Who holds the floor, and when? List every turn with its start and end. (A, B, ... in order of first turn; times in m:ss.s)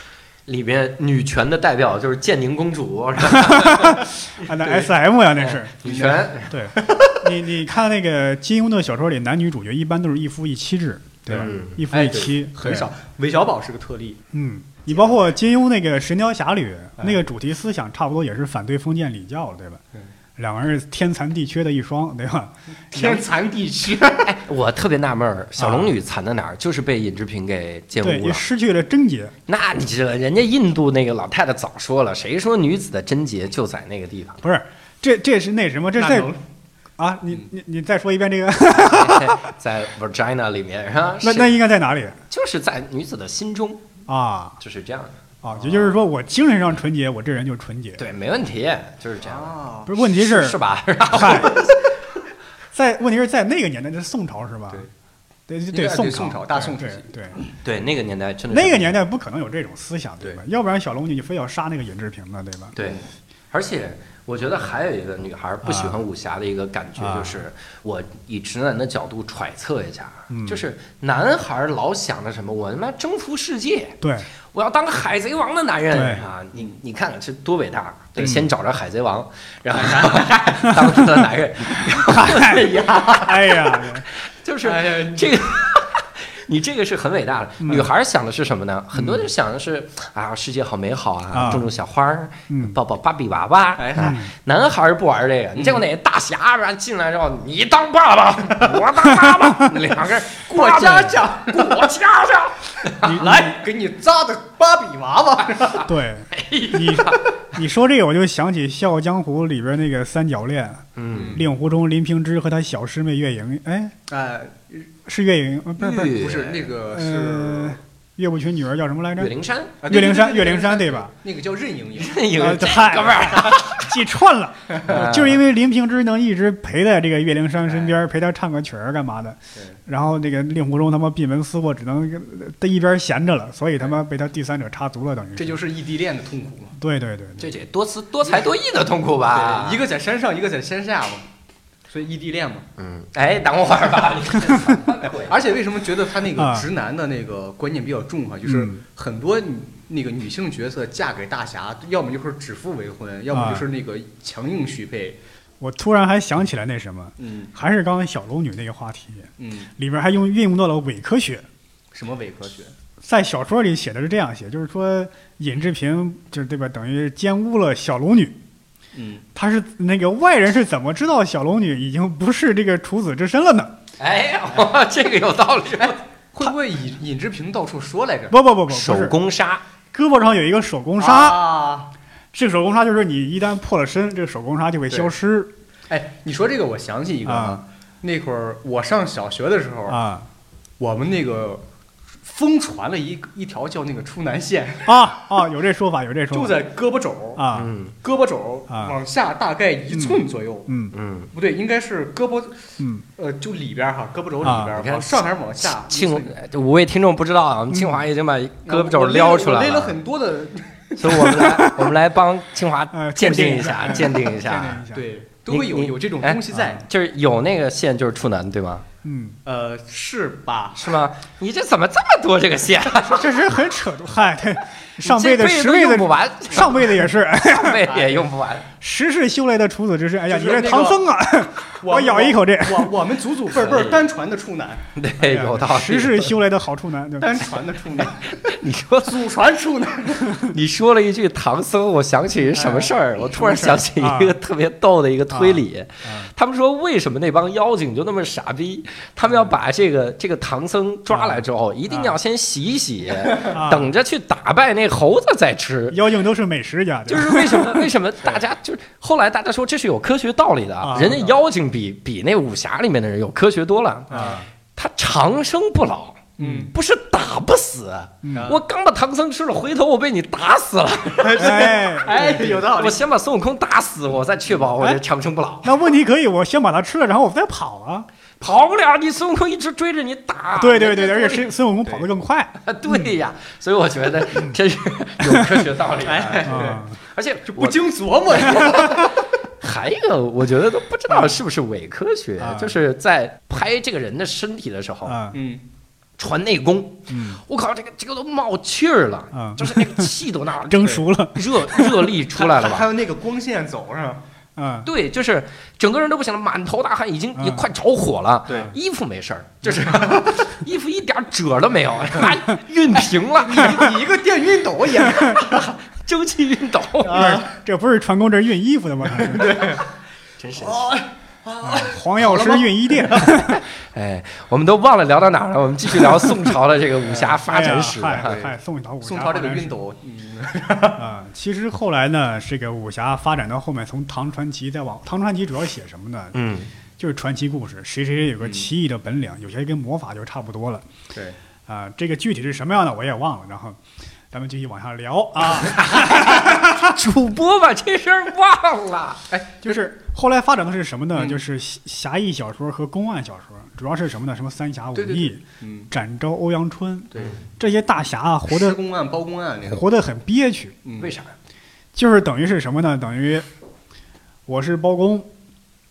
0:00.5-0:04.8 A
0:03.2-0:05.7 B
0:05.4-0:06.6 A
0:05.8-0:07.2 C
0:06.5-0:12.9 B
0:11.3-0:14.2 C
0:11.4-0:11.8 A
0:14.3-0:19.8 B
0:20.4-0:23.2 B
0:22.9-0:24.4 C
0:24.3-0:28.4 A
0:25.6-0:25.9 B
0:28.0-0:29.3 B
0:29.5-0:34.4 A
0:34.4-0:36.3 B
0:36.0-0:36.4 C
0:37.0-0:39.5 B
0:38.8-0:41.5 A
0:41.2-0:42.2 B
0:42.3-0:43.8 A
0:44.1-0:44.6 B
0:44.6-0:45.2 A
0:45.4-0:48.0 B
0:48.0-0:51.9 A
0:49.2-0:49.9 C
0:49.8-0:51.7 B
0:52.7-0:54.9 B
0:55.5-0:57.4 B
0:55.7-0:57.5 C
0:57.6-0:59.0 A
0:58.5-1:02.7 B
1:02.7-1:43.2 A
1:05.6-1:06.0 B
1:07.0-1:07.4 B
1:10.3-1:10.6 B
1:14.0-1:14.3 B
1:15.9-1:16.3 B
1:18.2-1:18.4 C
1:18.2-1:18.5 B
1:20.6-1:22.7 B
1:22.5-1:23.3 C
1:23.2-1:24.0 B
1:24.6-1:25.3 C
1:27.6-1:27.9 B
1:28.9-1:29.3 B
1:31.3-1:31.7 B
1:32.5-1:32.8 B
1:33.8-1:34.2 C
1:34.0-1:34.3 B
1:39.1-1:39.7 B
1:40.5-1:41.9 C
1:43.0-1:45.9 C
1:43.0-1:43.5 B
1:45.8-1:53.9 B
1:46.3-1:47.3 A
1:51.0-1:51.4 A
1:51.1-1:51.4 C
1:54.1-1:54.9 C
1:55.0-1:56.3 B
1:55.8-1:56.6 A
1:56.0-1:57.8 C
1:56.9-1:59.3 B
1:59.2-1:59.7 A
1:59.8-2:02.2 C
1:59.8-2:01.1 B
2:02.0-2:04.0 A
2:02.3-2:15.6 B
2:04.8-2:05.4 A
2:07.7-2:07.9 C
2:15.4-2:16.8 C
2:16.8-2:17.4 B
2:17.4-2:19.8 A
2:19.3-2:21.2 C
2:21.9-2:22.7 C
2:22.8-2:25.4 A
2:24.5-2:24.8 B
2:25.1-2:35.2 C
2:26.3-2:26.7 B
2:28.4-2:28.8 B
2:33.3-2:33.6 B
2:35.6-2:41.5 B
2:37.2-2:37.5 C
2:39.4-2:39.7 C
2:41.9-2:42.7 C
2:43.0-2:48.4 B
2:48.9-2:49.2 C
2:49.3-2:53.8 B
2:54.0-2:56.0 A
2:55.8-2:58.3 C
2:58.3-2:59.2 B
2:58.7-2:59.6 A
2:59.9-3:01.4 B
3:01.0-3:01.9 C
3:02.3-3:05.5 B
3:05.9-3:10.0 C
3:07.2-3:07.6 B
3:09.9-3:10.3 B
3:10.8-3:11.6 C
3:12.2-3:15.0 C
3:14.8-3:16.6 B
3:16.3-3:17.4 C
3:17.4-3:17.7 B
3:17.5-3:17.9 A
3:18.0-3:20.7 C
3:18.7-3:19.0 B
3:19.9-3:20.9 B
3:20.9-3:21.3 A
3:21.3-3:26.4 C
3:24.4-3:24.7 B
3:24.7-3:30.0 A
3:27.7-3:28.0 B
3:28.6-3:31.4 C
3:31.0-3:34.8 A
3:31.1-3:31.9 B
3:32.9-3:35.1 B
3:34.9-3:36.8 C
3:35.5-3:38.8 A
3:39.0-3:39.4 B
3:39.4-3:40.8 C
3:40.7-3:43.3 A
3:43.0-3:47.9 B
3:45.0-3:48.7 A
3:47.9-3:48.2 C
3:48.8-3:52.9 B
3:50.3-3:51.0 C
3:51.7-3:54.8 C
3:53.6-3:54.0 A
3:54.9-3:56.3 A
3:55.2-3:57.5 B
3:57.2-3:58.3 C
3:58.0-3:59.3 A
3:59.0-4:00.4 C
4:00.3-4:16.1 A
4:02.6-4:02.9 C
4:03.3-4:04.4 B
4:05.3-4:06.3 B
4:11.1-4:12.1 B
4:13.5-4:13.9 B
4:15.9-4:17.9 B
4:17.1-4:35.8 A
4:20.8-4:21.2 B
4:20.9-4:21.3 C
4:24.1-4:24.4 C
4:24.1-4:24.5 B
4:26.4-4:26.7 C
4:28.2-4:28.5 B
4:28.3-4:28.6 C
4:31.2-4:33.0 C
4:31.4-4:32.6 B
4:35.6-4:38.1 B
4:38.4-4:41.5 A
4:40.6-4:43.1 B
4:42.6-4:55.2 A
4:45.2-4:45.7 B
4:46.0-4:46.8 C
4:46.4-4:47.0 B
4:47.5-4:49.2 C
4:52.4-4:52.8 B
4:55.0-4:55.4 B
4:55.3-4:55.6 C
4:56.2-5:02.9 A
4:57.1-4:57.4 B
4:59.3-5:00.1 B
5:00.7-5:02.1 B
5:02.3-5:04.2 C
5:04.6-5:04.9 B
5:04.8-5:14.0 A
5:07.4-5:07.6 B
5:08.5-5:08.7 C
5:09.8-5:10.4 C
5:13.3-5:15.7 C
5:15.1-5:17.3 A
5:17.0-5:17.5 C
5:17.1-5:19.6 B
5:19.2-5:19.8 C
5:20.4-5:20.9 A
5:20.6-5:23.5 C
5:21.6-5:23.6 B
5:23.3-5:28.4 A
5:27.0-5:27.4 C
5:27.5-5:29.8 B
5:28.2-5:31.0 C
5:31.0-5:36.4 B
5:36.3-5:36.7 A
5:37.0-5:40.9 B
5:38.4-5:38.7 C
5:41.7-5:43.8 B
5:44.3-5:46.9 B
5:45.7-5:49.2 A
5:49.3-5:49.8 C
5:49.6-5:58.8 B
5:51.1-5:51.4 C
5:54.9-5:55.9 C
5:57.1-5:57.4 C
5:58.5-5:59.8 C
5:59.6-6:00.8 B
6:00.8-6:01.1 C
6:01.0-6:01.3 A
6:01.9-6:03.5 B
6:04.5-6:05.3 B